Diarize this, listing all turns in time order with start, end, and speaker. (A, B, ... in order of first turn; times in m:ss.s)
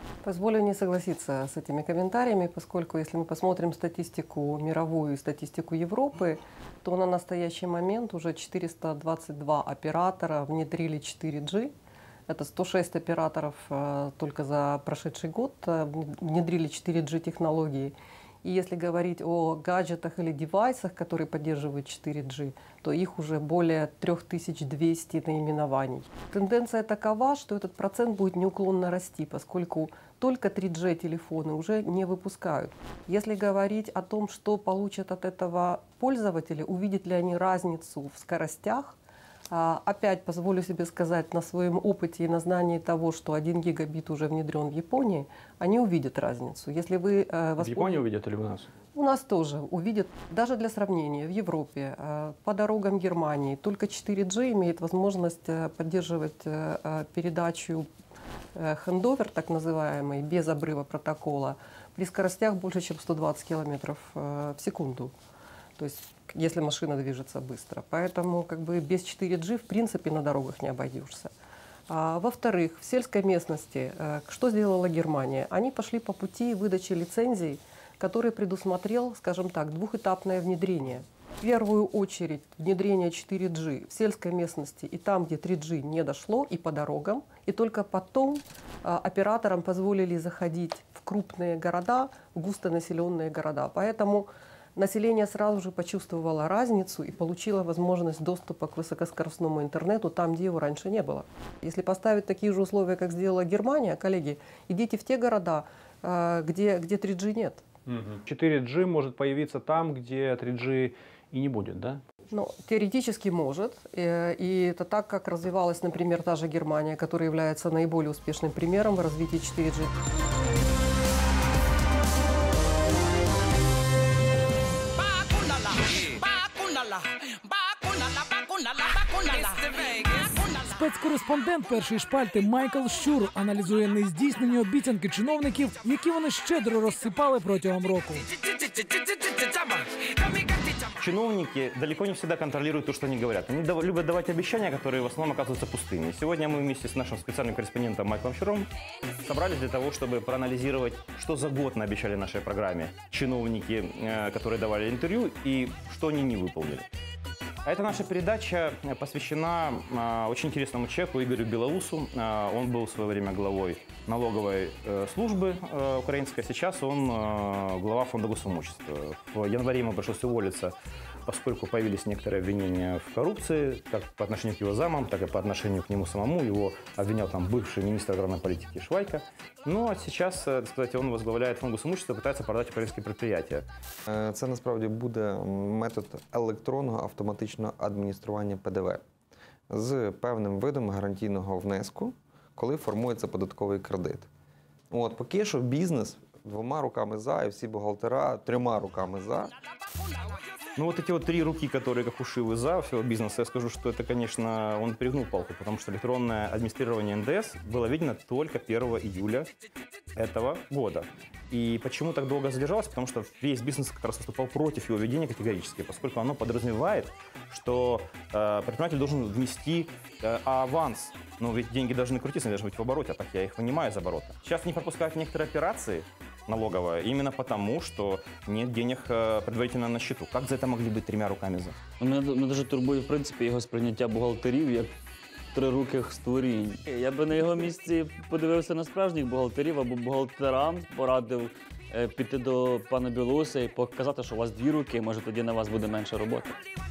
0:00.2-0:11.7 A
0:12.3-0:39.0 A
0:39.5-0:48.0 A
0:47.6-0:48.7 B
0:48.9-0:57.9 A
0:58.5-1:05.1 A
1:05.8-1:11.3 A
1:11.9-1:47.6 A
1:47.9-1:52.0 B
1:52.3-1:59.9 A
2:10.4-2:18.3 C
2:21.0-2:28.7 D
2:29.2-2:36.9 D
2:37.6-2:50.7 D
2:51.2-3:03.6 D
3:04.1-3:09.0 E
3:09.7-3:14.3 E
3:14.9-3:19.5 E
3:20.8-3:29.5 D
3:30.2-3:51.8 D
3:52.0-3:54.9 F
3:55.5-4:06.6 F